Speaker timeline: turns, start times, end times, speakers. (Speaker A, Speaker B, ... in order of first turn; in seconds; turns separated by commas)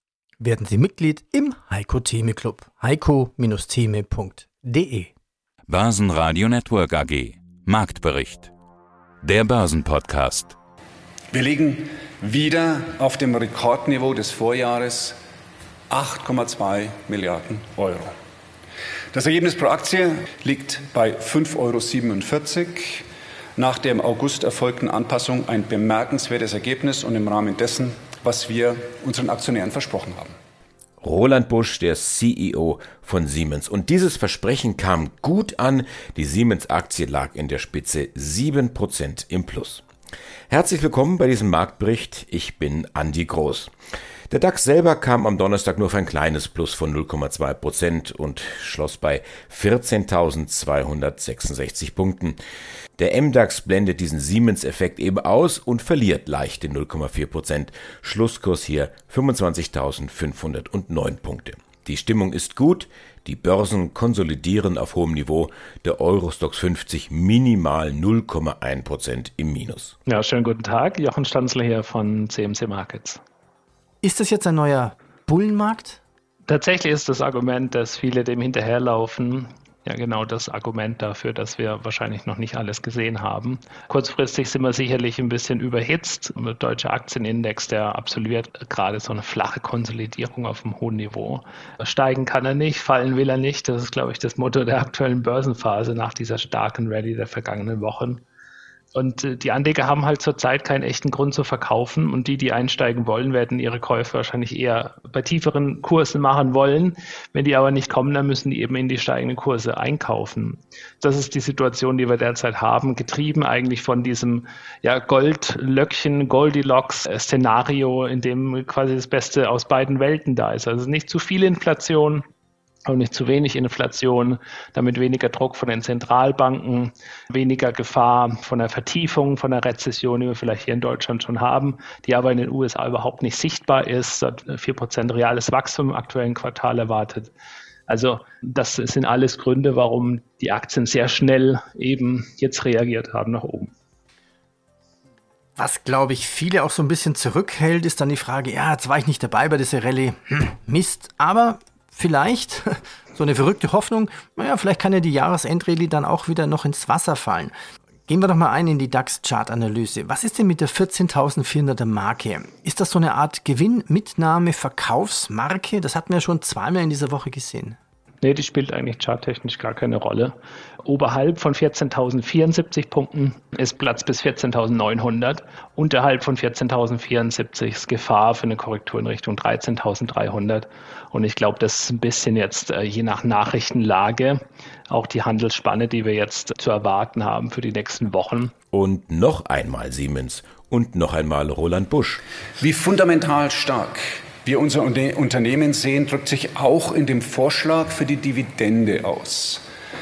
Speaker A: 0.4-5.1, Speaker B: 5.7-8.5, Speaker B: 9.2-10.6, Speaker C: 11.3-15.2, Speaker C: 15.9-18.1, Speaker C: 19.1-30.4, Speaker D: 31.0-39.8, Speaker D: 40.5-43.7, Speaker D: 44.3-52.4, Speaker D: 53.0-70.0, Speaker E: 70.1-73.2, Speaker A: 74.0-76.0, Speaker E: 76.5-98.2, Speaker E: 98.9-122.2, Speaker E: 122.9-137.3, Speaker E: 137.9-143.7, Speaker A: 145.6-157.6, Speaker A: 158.1-167.8, Speaker E: 168.2-188.5, Speaker D: 188.7-192.2, Speaker C: 192.6-199.7